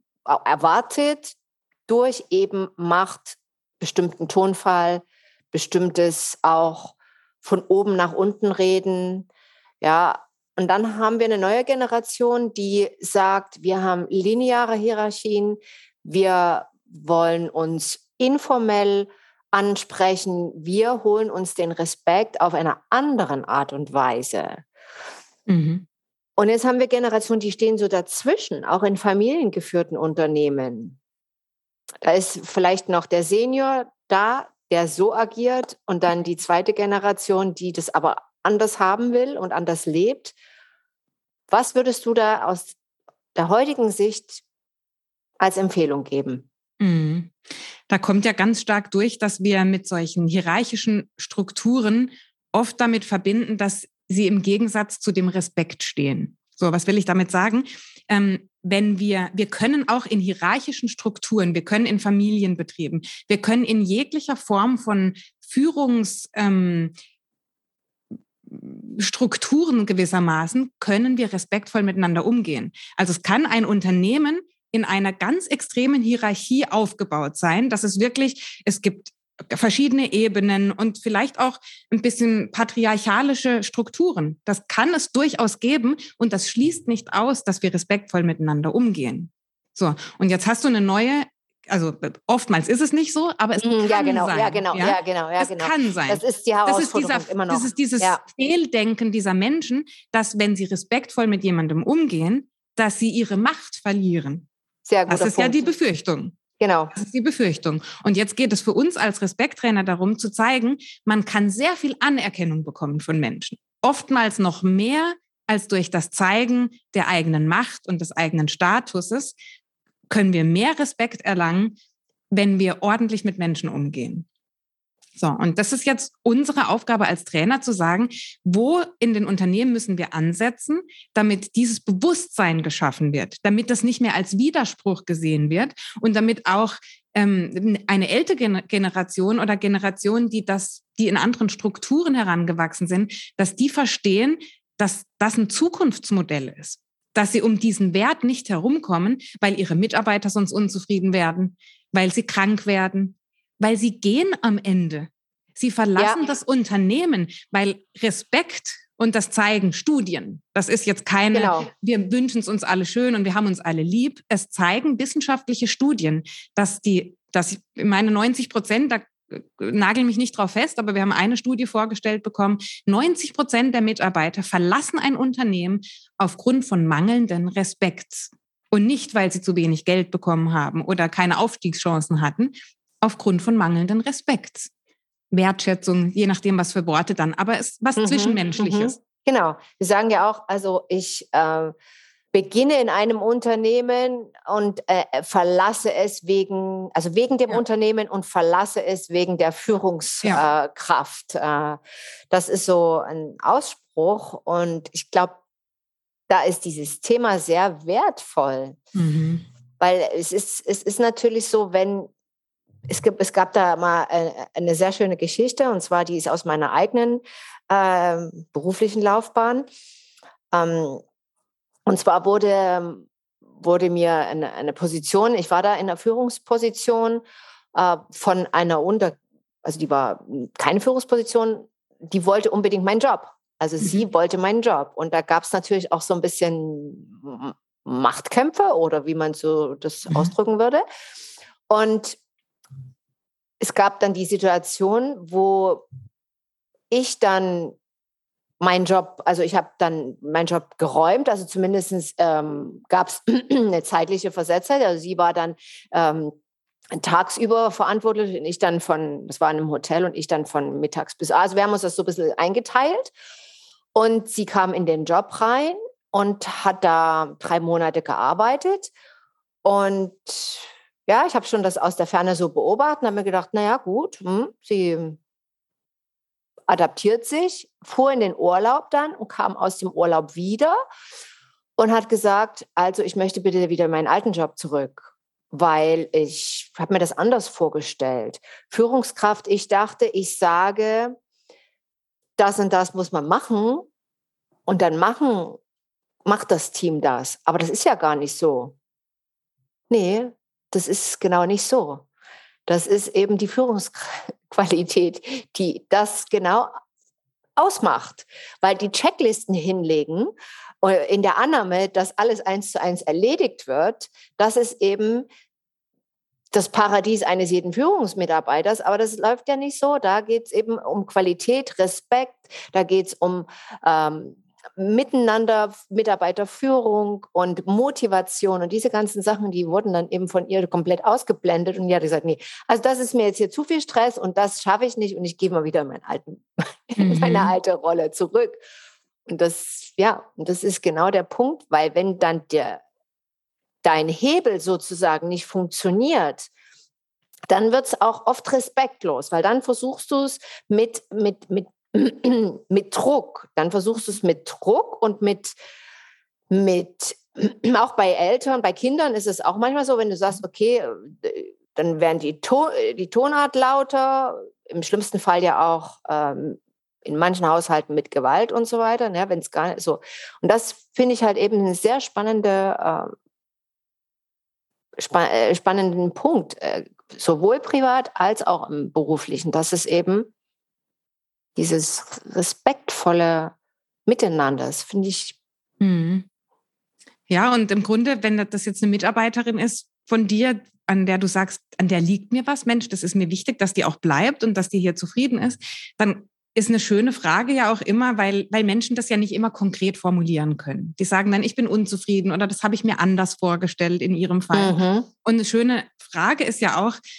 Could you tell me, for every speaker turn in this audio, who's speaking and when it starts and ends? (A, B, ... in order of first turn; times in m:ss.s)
0:00.2-0:09.3 A
0:09.8-0:24.6 A
0:25.5-0:25.8 B
0:26.4-0:31.0 A
0:32.0-0:40.4 A
0:41.5-0:42.8 A
0:43.4-0:44.4 A
0:45.4-0:46.5 A
0:46.8-0:47.3 B
0:47.9-1:06.9 B
1:08.5-1:44.5 B
1:33.6-1:38.2 A
1:44.9-1:45.6 A
1:45.1-1:46.4 B
1:46.6-1:46.9 A
1:46.9-1:59.4 B
2:00.1-2:01.8 B
2:02.3-2:04.3 B
2:05.2-3:04.7 B
2:36.0-2:36.3 A
2:41.3-2:41.7 A
3:05.3-3:09.0 B
3:08.0-3:11.7 A
3:12.3-3:21.8 A
3:22.3-3:25.4 A
3:26.3-3:28.8 A
3:28.9-3:29.4 B
3:29.8-3:32.1 A
3:32.9-3:39.6 A
3:40.5-3:41.0 A
3:41.9-3:43.1 A
3:43.6-3:47.2 A
3:47.7-4:00.8 A
4:01.7-4:02.2 A
4:03.6-4:05.9 A
4:06.9-4:07.8 A
4:08.6-4:16.4 A
4:16.9-4:23.1 A
4:23.9-4:28.9 A
4:29.6-4:35.2 A
4:36.7-4:40.8 A
4:41.8-4:51.1 A
4:52.4-4:53.9 A
4:54.7-4:55.6 A
4:56.2-4:58.8 A
4:59.9-5:02.1 A
5:02.7-5:06.7 A
5:07.6-5:15.3 A
5:16.5-5:38.6 A
5:37.0-5:37.5 B
5:39.3-5:42.8 A
5:43.8-5:46.5 A
5:47.5-5:55.6 A
5:56.5-6:13.1 A
6:15.0-6:20.3 A
6:21.6-6:23.6 A
6:24.1-6:25.4 A
6:25.8-6:26.3 B
6:27.3-6:47.0 B
6:44.5-6:45.1 A